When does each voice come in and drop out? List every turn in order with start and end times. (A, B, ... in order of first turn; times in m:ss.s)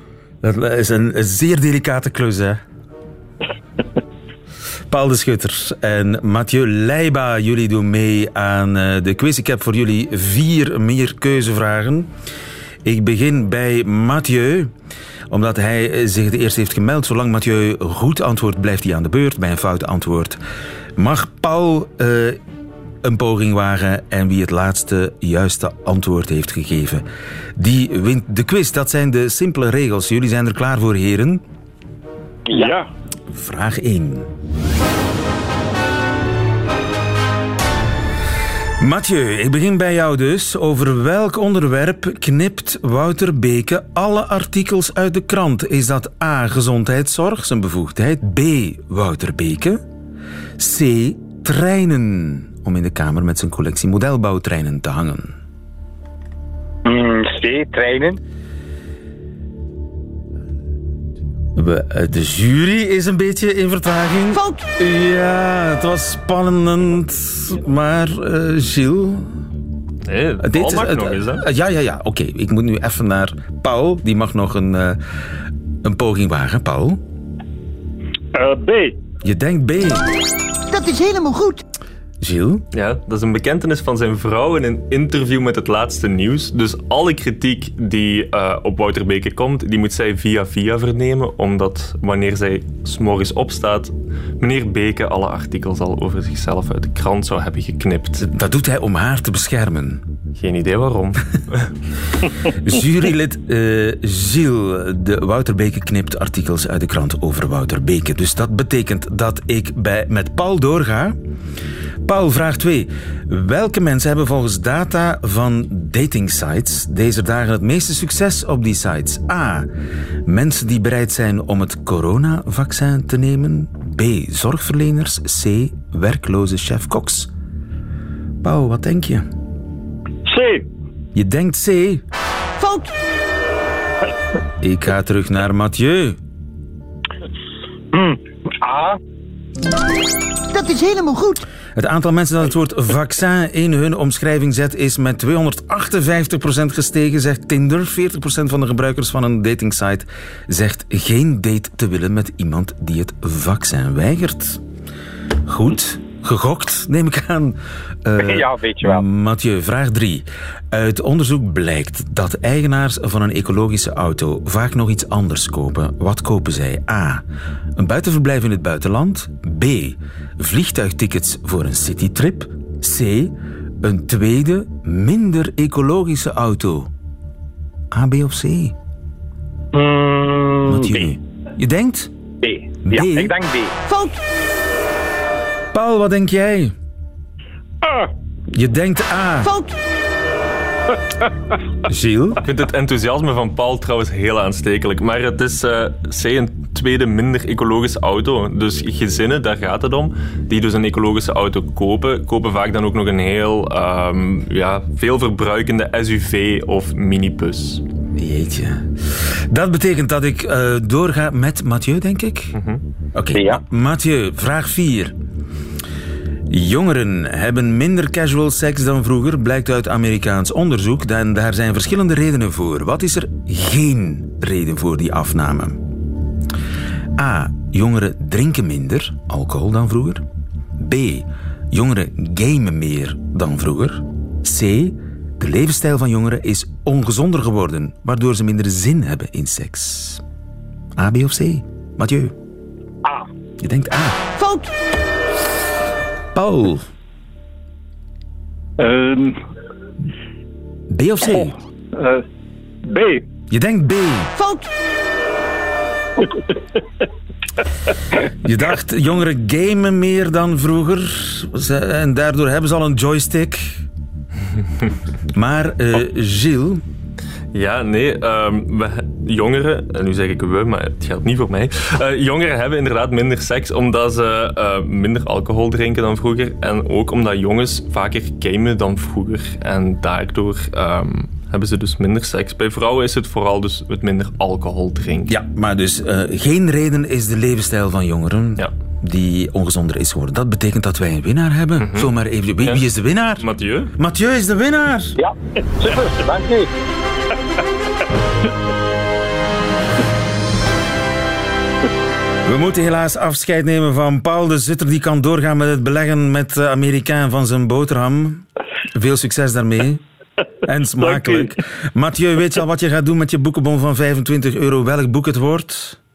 0:00.4-0:02.6 A
0:04.9-0:12.1 A
0:12.8-0:14.7 A
0:15.3-0:20.4 A
0:21.0-0:22.4 A
0:23.0-0:27.0 A
0:27.6-0:31.4 A
0:32.5-0:32.9 B
0:33.3-0:34.3 A
0:38.8-0:49.8 A
0:50.6-0:55.4 A
0:56.8-0:58.2 C
1:01.6-1:09.3 A
1:10.1-1:11.4 D
1:10.4-1:15.0 A
1:15.8-1:17.0 A
1:18.3-1:19.0 B
1:19.2-1:20.1 A
1:20.7-1:21.6 E
1:22.2-1:22.6 A
1:22.7-1:38.3 D
1:38.3-1:40.0 A
1:40.4-1:41.7 D
1:42.6-1:51.2 A
1:52.0-1:59.7 A
2:00.2-2:07.3 A
2:08.4-2:09.3 A
2:10.3-2:10.7 B
2:11.1-2:12.0 A
2:12.6-2:12.9 E
2:14.6-2:16.2 A
2:17.9-2:19.0 C
2:20.5-2:21.4 E
2:21.8-2:34.6 A
2:35.5-2:47.2 A
2:38.2-2:39.0 C
2:47.8-2:56.9 A
2:57.9-2:58.8 A
2:59.7-3:00.9 C
3:00.6-3:02.1 A
3:02.4-3:03.8 C
3:02.8-3:03.4 A
3:05.7-3:06.7 A
3:07.8-3:08.1 B
3:08.5-3:09.6 A
3:11.9-3:12.4 A
3:12.4-3:27.8 D
3:28.2-3:32.6 A
3:32.6-3:32.8 D
3:33.1-3:35.2 A
3:33.4-3:33.6 C
3:36.5-3:45.8 A
3:47.2-3:50.2 A
3:50.8-4:00.2 A
4:01.0-4:02.4 A
4:03.6-4:04.2 A
4:06.3-4:06.9 A
4:08.8-4:09.4 B
4:10.9-4:11.6 A
4:11.4-4:12.2 B
4:12.9-4:13.3 B
4:13.5-4:14.4 A
4:18.4-4:23.8 A
4:25.3-4:26.8 A
4:27.5-4:45.3 D
4:45.3-4:55.1 A
4:51.8-4:52.8 D
4:53.4-4:53.9 D
4:55.2-4:56.7 C
5:02.4-5:10.0 A
5:10.6-5:16.0 A
5:11.0-5:11.5 B